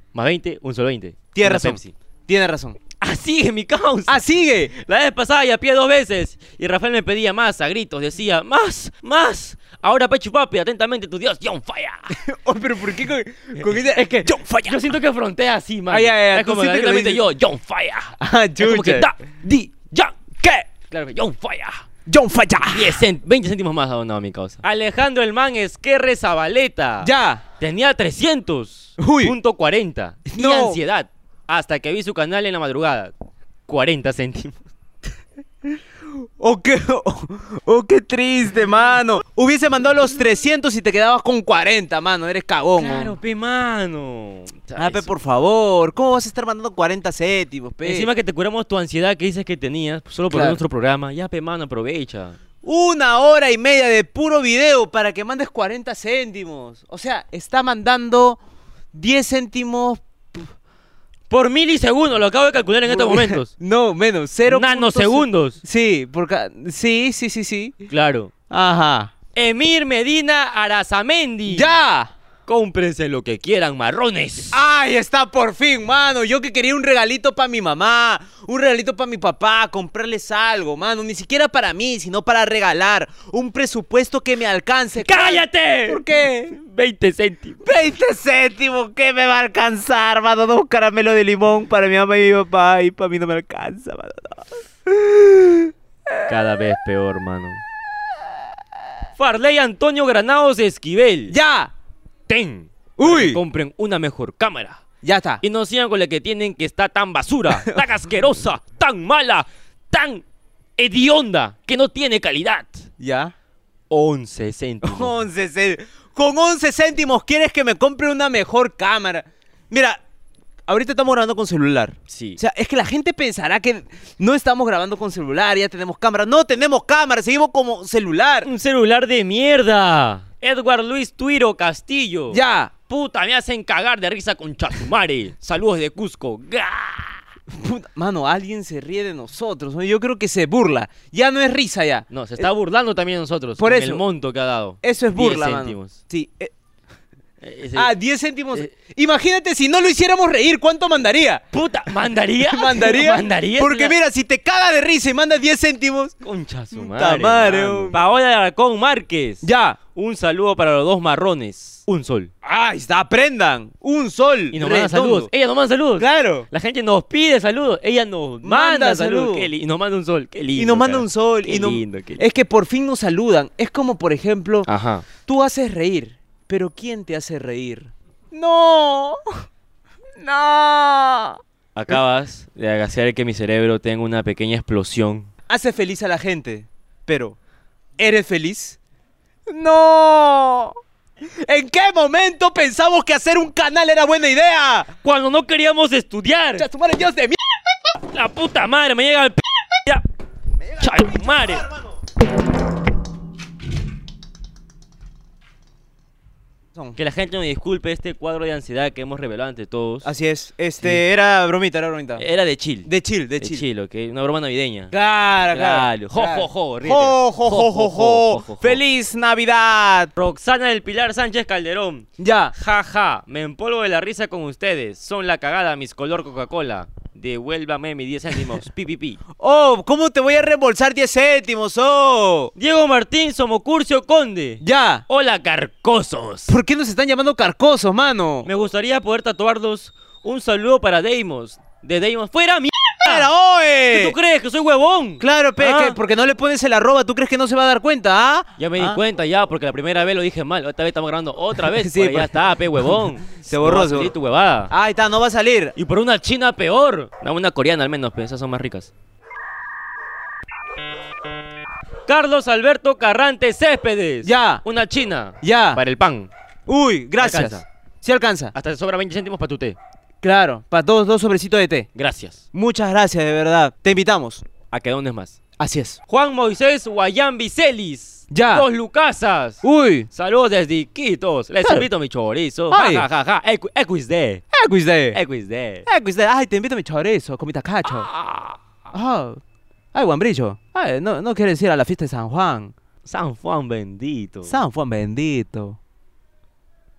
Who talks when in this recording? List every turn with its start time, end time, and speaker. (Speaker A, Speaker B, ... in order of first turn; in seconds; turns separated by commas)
Speaker A: 0.1-1.9, Speaker B: 1.4-2.8, Speaker A: 3.0-12.1, Speaker B: 4.1-4.7, Speaker B: 12.1-14.9, Speaker A: 14.7-20.1, Speaker B: 15.9-17.2, Speaker B: 18.2-19.1, Speaker A: 20.9-21.9, Speaker B: 22.1-23.0, Speaker A: 22.7-33.1, Speaker B: 27.0-27.4, Speaker B: 29.0-29.3, Speaker B: 30.3-30.8, Speaker A: 33.7-34.6, Speaker B: 36.4-43.1, Speaker A: 42.8-45.1, Speaker B: 44.8-48.1, Speaker A: 47.8-52.4, Speaker B: 50.3-50.6, Speaker B: 52.6-58.4, Speaker B: 58.9-60.5, Speaker A: 61.3-63.5, Speaker B: 62.9-67.8, Speaker A: 64.5-65.6, Speaker A: 67.9-68.3, Speaker B: 68.5-69.1, Speaker A: 69.3-71.8, Speaker B: 71.5-72.1, Speaker A: 72.5-74.5, Speaker B: 74.5-86.5, Speaker A: 85.0-87.6, Speaker B: 87.6-95.7, Speaker A: 96.3-97.6, Speaker A: 99.2-101.3, Speaker B: 101.3-101.7, Speaker A: 102.3-104.8, Speaker B: 103.0-103.4, Speaker B: 105.0-105.4, Speaker A: 105.4-110.2, Speaker B: 107.5-107.8, Speaker A: 110.8-112.9, Speaker B: 113.0-113.3, Speaker A: 113.9-115.1, Speaker B: 114.8-120.0, Speaker B: 120.7-128.5, Speaker A: 122.1-122.4, Speaker A: 128.4-137.2, Speaker B: 132.3-132.7, Speaker B: 137.5-142.5, Speaker A: 142.1-145.9, Speaker B: 143.6-144.0, Speaker B: 144.8-146.5, Speaker A: 147.4-147.9, Speaker B: 147.8-151.4, Speaker A: 151.5-154.0, Speaker B: 152.4-156.2, Speaker A: 156.2-162.3, Speaker B: 156.7-158.0, Speaker B: 159.4-159.8, Speaker B: 162.4-165.3, Speaker A: 164.5-172.2, Speaker B: 166.0-166.5, Speaker B: 168.4-169.5, Speaker B: 170.6-174.7, Speaker A: 174.7-175.1, Speaker B: 175.2-179.3, Speaker B: 180.2-181.4, Speaker A: 181.8-185.3, Speaker B: 185.5-187.4, Speaker B: 188.0-188.8, Speaker B: 189.5-190.8, Speaker B: 191.4-194.9, Speaker A: 195.0-196.7, Speaker B: 196.6-197.4, Speaker A: 198.1-200.0, Speaker A: 200.8-201.7, Speaker B: 200.8-201.2, Speaker A: 207.0-210.1, Speaker B: 210.0-212.2, Speaker A: 212.2-212.9, Speaker B: 212.8-213.6, Speaker A: 213.4-214.9, Speaker B: 214.9-220.1, Speaker A: 215.5-218.8, Speaker A: 220.2-229.2, Speaker B: 222.2-222.5, Speaker B: 229.4-232.5, Speaker A: 232.6-236.5, Speaker B: 234.6-235.0, Speaker B: 236.5-238.5, Speaker A: 238.4-243.3, Speaker B: 243.0-244.2, Speaker A: 243.9-246.0, Speaker B: 245.2-249.0, Speaker A: 248.6-254.7, Speaker B: 251.7-252.3, Speaker B: 253.4-254.1, Speaker B: 254.7-255.8, Speaker A: 255.8-258.9, Speaker A: 262.1-266.3, Speaker B: 264.2-264.6, Speaker B: 265.4-265.8, Speaker B: 266.7-268.5, Speaker A: 267.2-267.6, Speaker A: 268.5-269.8, Speaker B: 270.2-271.9, Speaker A: 271.9-272.4, Speaker B: 272.5-274.4, Speaker A: 274.7-275.4, Speaker B: 275.6-276.0, Speaker A: 276.1-284.5, Speaker B: 278.3-278.6, Speaker B: 279.6-280.1, Speaker B: 282.7-283.1, Speaker B: 284.5-285.2, Speaker A: 285.1-285.9, Speaker B: 285.9-288.1, Speaker A: 287.9-288.6, Speaker B: 288.9-289.4, Speaker B: 289.9-292.7, Speaker A: 293.1-294.6, Speaker B: 294.5-295.8